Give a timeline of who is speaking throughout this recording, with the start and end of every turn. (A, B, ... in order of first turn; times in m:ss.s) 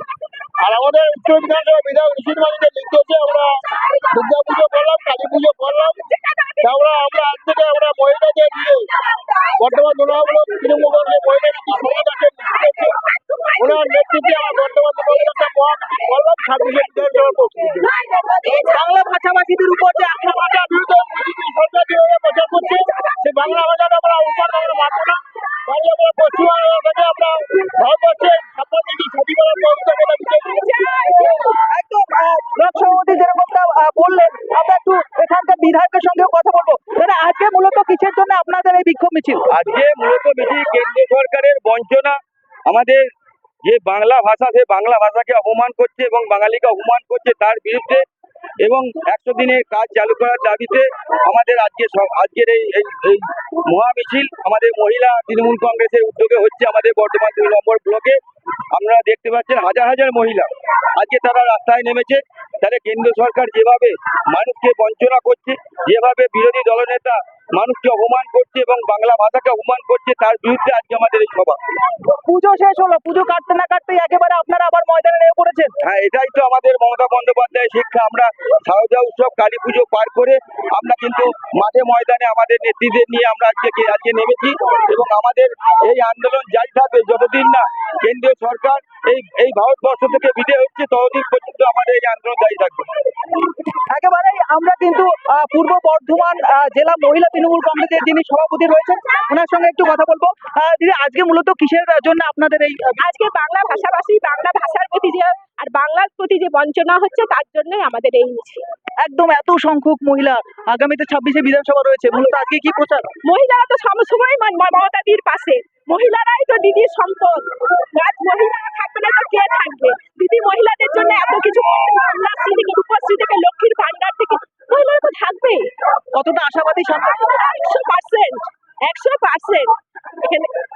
0:00.6-0:03.5 A
0:04.1-0:06.0 A
0:06.2-0:06.6 B
0:06.6-0:08.9 A
0:09.6-0:13.0 A
0:13.2-0:14.0 B
0:13.6-0:17.8 A
0:17.8-0:18.6 B
0:18.4-0:20.4 C
0:20.3-0:30.6 A
0:22.9-0:23.2 B
0:30.5-0:31.4 B
0:31.7-0:39.4 C
0:39.5-0:42.2 D
0:42.7-0:43.0 D
0:43.6-0:48.0 D
0:48.6-0:58.2 D
0:58.7-1:11.6 D
1:12.1-1:15.7 C
1:15.8-1:32.9 D
1:33.9-1:42.9 C
1:43.0-1:48.6 B
1:49.0-1:53.1 C
1:53.2-2:05.7 B
2:06.1-2:07.2 C
2:07.1-2:10.5 B